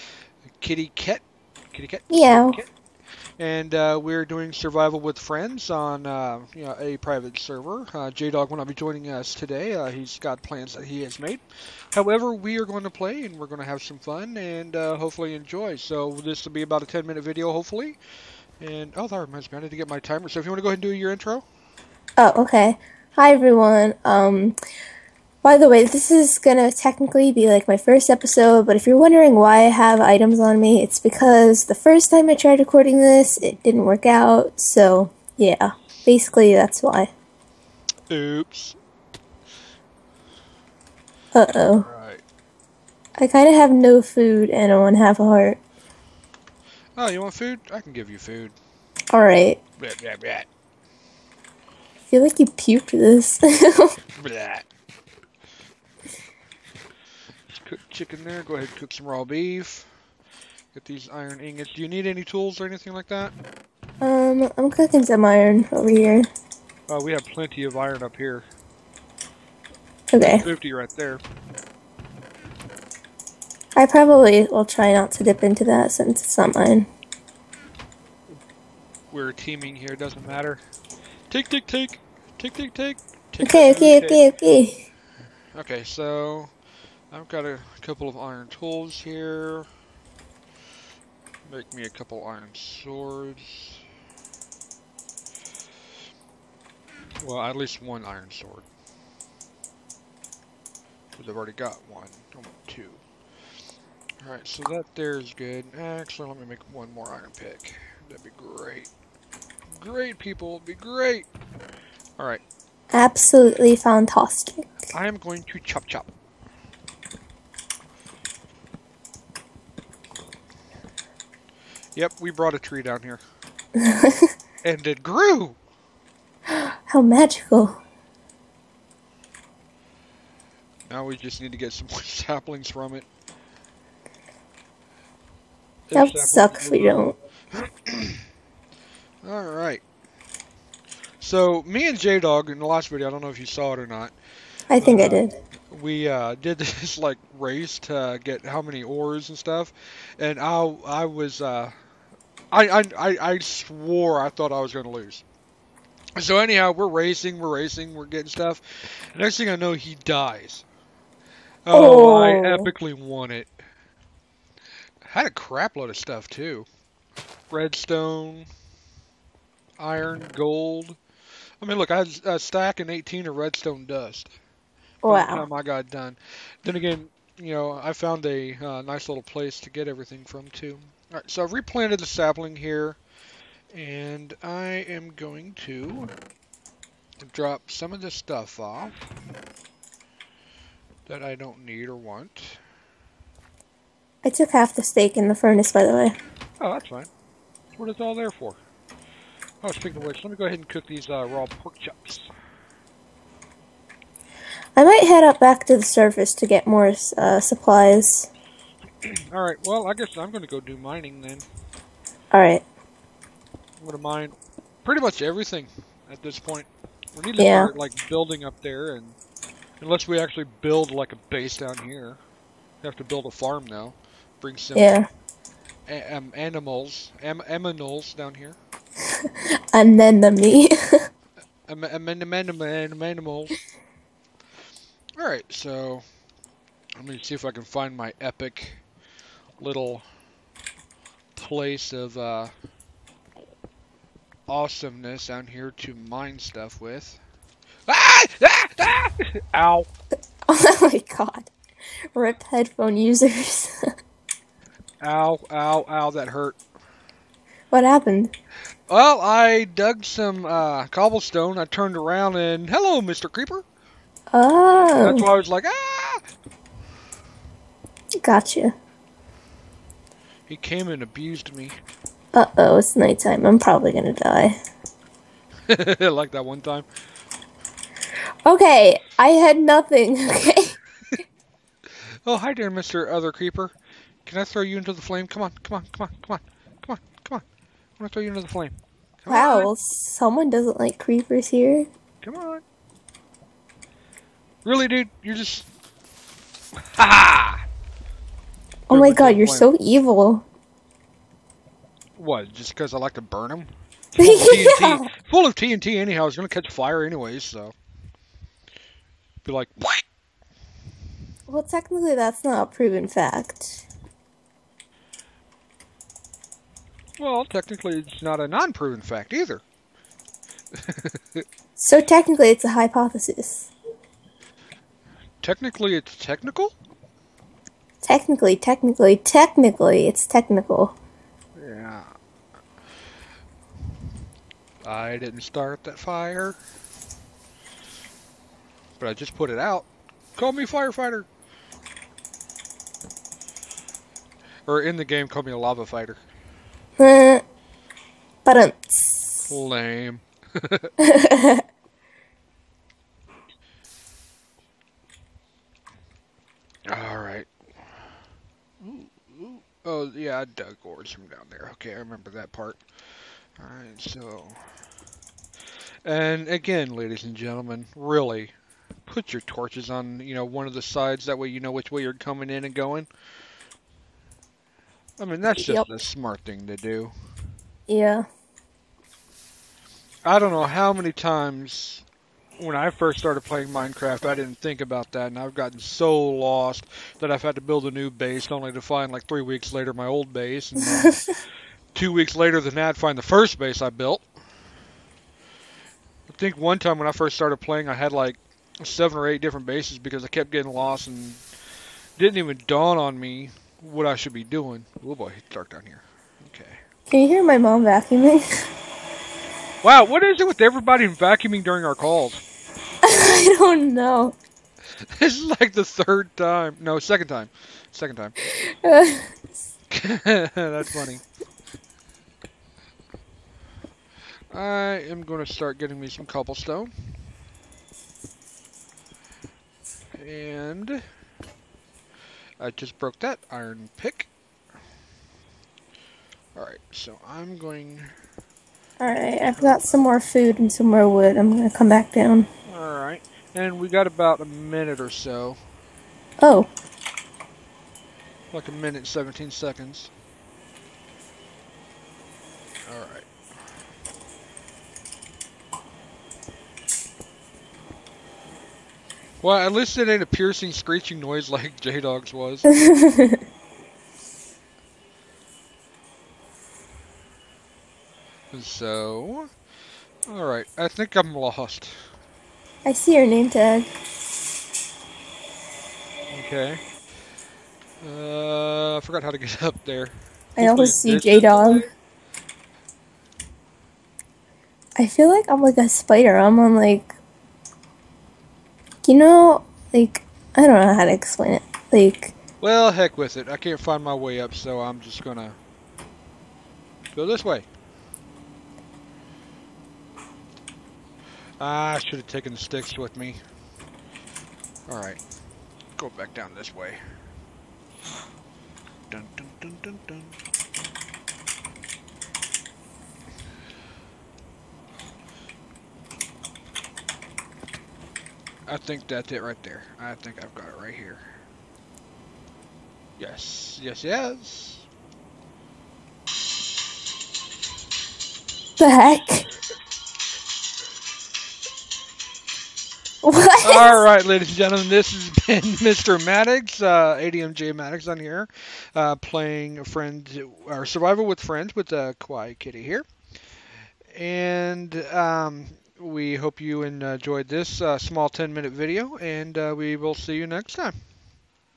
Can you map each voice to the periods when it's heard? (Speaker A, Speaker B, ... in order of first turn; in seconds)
Speaker A: 0.6-1.2, 1.7-2.7, 3.4-11.4, 11.9-18.0, 18.6-21.4, 38.1-38.8, 41.9-42.2, 47.0-48.6, 49.8-50.5, 54.2-54.7, 57.5-59.9, 60.7-63.3, 66.9-68.5, 70.2-71.2, 79.1-80.6, 81.3-84.2, 85.6-86.5, 87.1-89.7, 91.5-93.8, 97.2-98.7, 101.2-103.0, 104.2-108.9, 109.8-111.3, 114.9-116.1, 122.0-123.2, 124.6-125.6, 130.9-133.1, 135.9-138.2, 139.2-139.8, 141.2-144.2, 144.8-151.7, 152.5-155.2, 156.2-160.7, 161.7-163.5, 165.1-166.7, 167.5-168.5, 169.8-171.0, 171.6-174.3, 175.1-183.0, 183.7-186.1, 187.2-188.9, 191.1-192.6, 196.6-197.1, 197.8-198.6, 199.6-202.3, 209.0-211.5, 213.8-219.2, 219.8-222.2, 222.8-225.0, 225.9-228.6, 231.7-233.6, 235.2-236.0, 237.0-238.8, 239.6-240.1, 241.4-242.5, 244.5-247.2, 247.9-249.9, 255.0-256.6, 258.9-263.6, 265.0-266.2, 270.5-271.8, 275.7-276.9, 282.2-283.7, 284.2-287.4, 288.0-289.7, 292.2-292.6, 294.6-295.7, 296.9-297.6, 298.9-299.7, 302.2-307.8, 309.4-310.0, 317.2-319.6, 320.8-321.4, 325.4-326.8, 331.6-332.1, 334.8-336.6, 339.0-341.3, 344.7-346.2, 349.4-350.9, 356.9-357.5, 358.8-362.8, 363.6-364.6, 366.1-368.5, 369.1-373.1, 375.2-377.1, 380.2-382.1, 382.6-391.2, 391.9-394.2, 396.3-401.4, 402.2-406.8, 409.8-412.4, 415.2-418.4, 419.9-421.2, 424.5-426.9, 430.1-431.0, 432.6-434.3, 436.6-438.1, 439.4-440.0, 442.7-445.6, 448.5-450.1, 452.9-453.3, 459.4-462.7, 468.5-469.5, 470.3-471.9, 476.3-476.8, 478.0-481.9, 492.6-495.6, 497.1-497.7, 501.6-503.4, 504.9-505.2, 506.0-507.0, 509.1-510.4, 518.7-521.2, 523.2-524.9, 533.6-543.0, 544.1-551.0
Speaker B: 2.1-2.6, 22.2-24.6, 25.4-37.1, 41.3-41.9, 43.2-45.6, 49.1-49.6, 52.1-53.9, 64.0-66.3, 70.1-70.5, 73.8-76.9, 83.4-84.8, 112.9-114.7, 123.8-124.2, 126.9-127.8, 135.9-137.2, 144.7-145.4, 161.7-162.7, 175.0-175.5, 194.2-196.2, 204.8-208.3, 212.3-212.6, 217.4-217.7, 224.8-225.1, 229.7-230.7, 250.5-251.5, 252.1-253.8, 257.7-258.3, 264.3-265.2, 268.2-268.7, 272.3-274.6, 278.4-280.8, 289.3-291.9, 298.9-300.4, 304.2-305.1, 311.5-313.8, 321.8-323.7, 328.0-331.0, 347.0-347.4, 348.4-349.4, 351.0-351.6, 375.6-375.9, 377.9-378.3, 407.1-408.5, 413.0-414.4, 418.4-419.3, 439.0-442.5, 446.4-446.7, 462.7-463.4, 472.9-473.9, 480.6-481.9, 485.0-487.1, 489.0-492.4, 528.8-529.5, 533.2-534.0